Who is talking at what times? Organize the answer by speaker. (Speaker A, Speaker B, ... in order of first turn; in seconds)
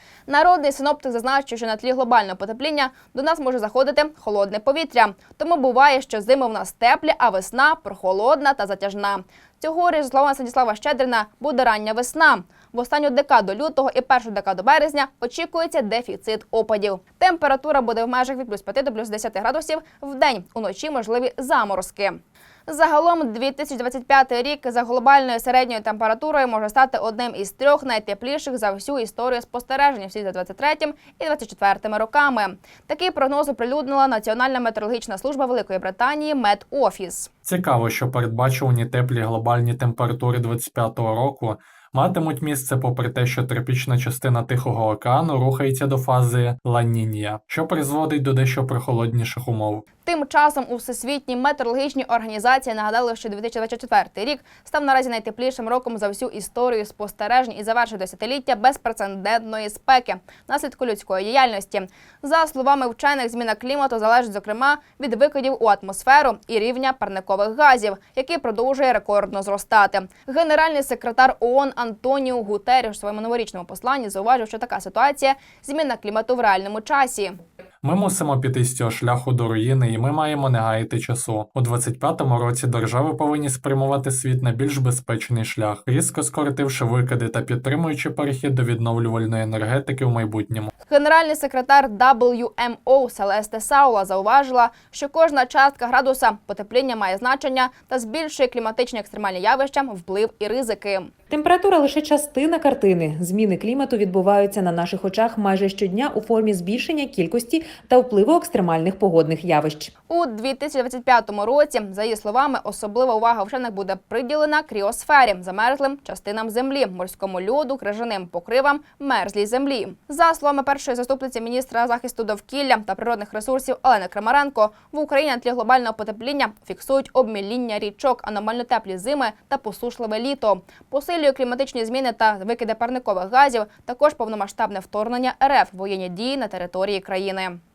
Speaker A: 0.3-37.3, 50.0-77.4, 90.8-101.1, 110.1-137.6
Speaker B: 37.5-49.8, 77.8-90.7
Speaker C: 101.3-109.9